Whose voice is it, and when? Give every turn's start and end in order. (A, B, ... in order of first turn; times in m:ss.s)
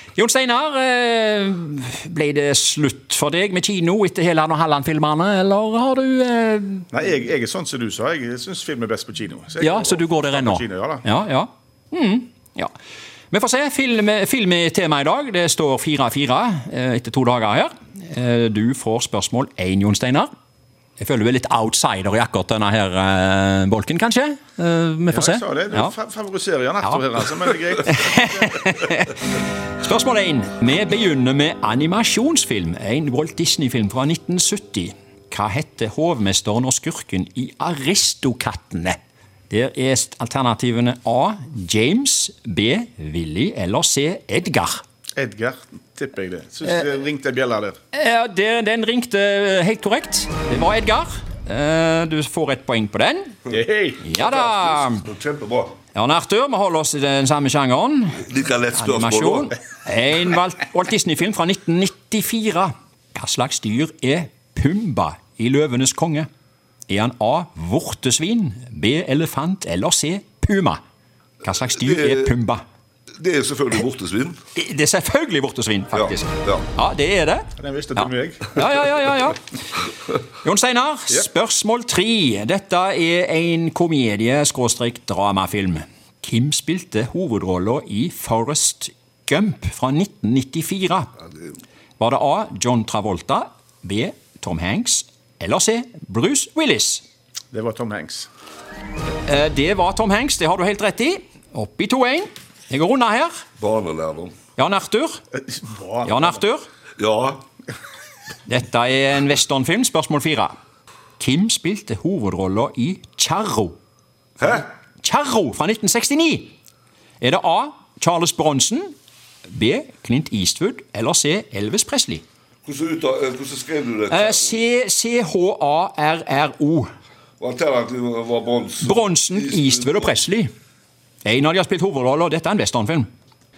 0:00.1-0:06.9 A
0:06.9-0:11.0 B
0:09.6-0:12.7 A
0:13.3-0:20.3 A
0:21.0-0:25.9 A
0:25.1-0:28.7 B
0:26.8-0:39.0 A
0:39.5-0:44.8 A
0:45.2-0:47.8 B
0:47.9-0:53.4 A
0:53.5-0:54.0 B
0:54.0-0:55.0 A
0:54.1-0:55.7 C
0:55.9-1:06.3 A
0:58.2-0:59.5 C
1:06.9-1:10.8 A
1:11.4-1:12.6 A
1:11.7-1:12.4 C
1:13.2-1:14.4 C
1:14.5-1:19.4 A
1:15.9-1:16.6 C
1:17.6-1:18.7 B
1:20.4-1:31.1 A
1:32.0-1:37.0 A
1:37.5-1:38.3 B
1:39.2-1:43.4 A
1:43.6-1:44.3 C
1:44.6-1:45.2 A
1:45.5-1:46.3 B
1:46.0-1:46.6 A
1:47.0-1:47.4 C
1:48.4-1:50.5 A
1:51.2-1:53.8 A
1:54.4-1:56.5 A
1:57.2-1:58.9 A
1:59.5-2:02.2 A
2:02.6-2:04.6 C
2:04.1-2:06.9 A
2:07.4-2:10.2 C
2:08.8-2:10.5 A
2:11.2-2:13.1 A